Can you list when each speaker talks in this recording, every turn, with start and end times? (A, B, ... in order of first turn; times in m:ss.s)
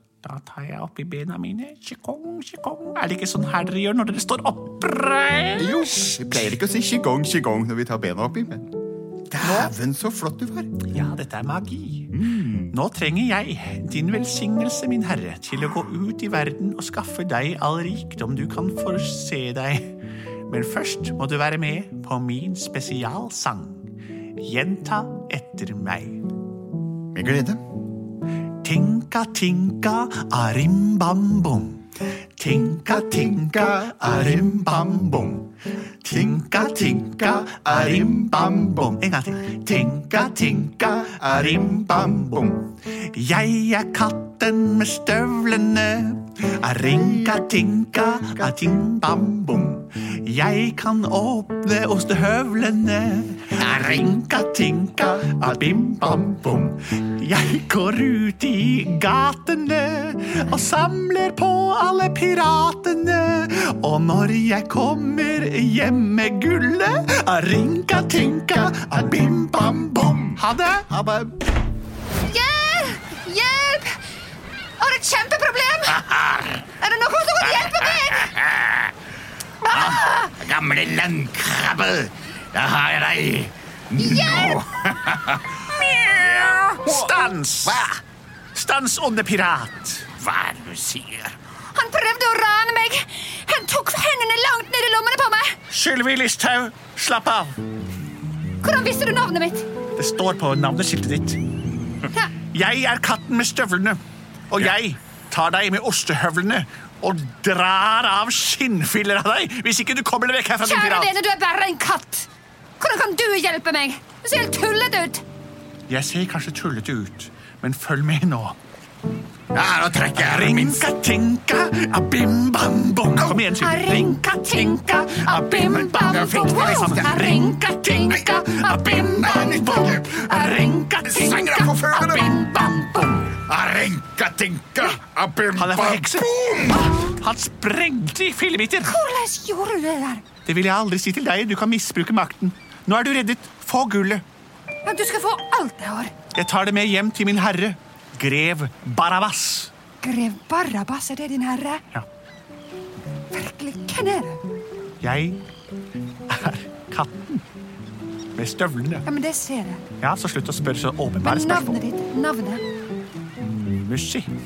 0:00.2-0:06.2 A
0:05.6-0:08.7 B
0:09.3-0:10.7 B
0:09.4-0:09.7 A
0:10.8-0:12.2 A
0:12.1-0:12.7 B
0:12.7-0:26.2 A
0:27.1-0:27.6 B
0:28.6-0:31.8 A
0:32.4-0:35.5 A
0:33.0-0:35.2 B
0:36.0-1:10.9 A
0:37.4-0:38.9 B
0:41.0-0:42.6 B
0:46.9-0:47.4 B
0:55.3-0:56.6 B
1:09.4-1:11.3 B
1:12.2-1:14.0 C
1:14.8-1:16.1 C
1:16.0-1:16.6 B
1:16.8-1:18.4 C
1:17.5-1:18.7 B
1:19.6-1:20.3 C
1:19.7-1:27.1 B
1:24.0-1:24.7 C
1:25.8-1:27.9 A
1:27.6-1:27.9 B
1:28.5-1:30.1 A
1:30.2-1:31.4 B
1:31.7-1:35.6 C
1:35.7-1:37.6 A
1:38.6-1:39.6 C
1:39.9-1:41.4 A
1:42.5-1:51.2 A
1:50.6-1:52.3 C
1:52.8-1:55.2 C
1:55.9-1:58.6 A
1:59.5-2:00.9 B
2:00.1-2:13.3 A
2:03.2-2:11.3 C
2:11.0-2:12.4 B
2:13.3-2:16.9 B
2:15.6-2:19.0 A
2:18.8-2:20.2 C
2:20.4-2:24.2 A
2:24.8-2:26.1 C
2:26.3-2:29.7 A
2:30.0-2:31.8 C
2:33.3-2:34.4 C
2:35.0-2:35.4 A
2:36.3-2:37.4 A
2:38.3-2:39.0 A
2:39.0-2:39.8 C
2:40.0-2:41.8 A
2:41.2-2:42.6 C
2:43.4-2:44.3 A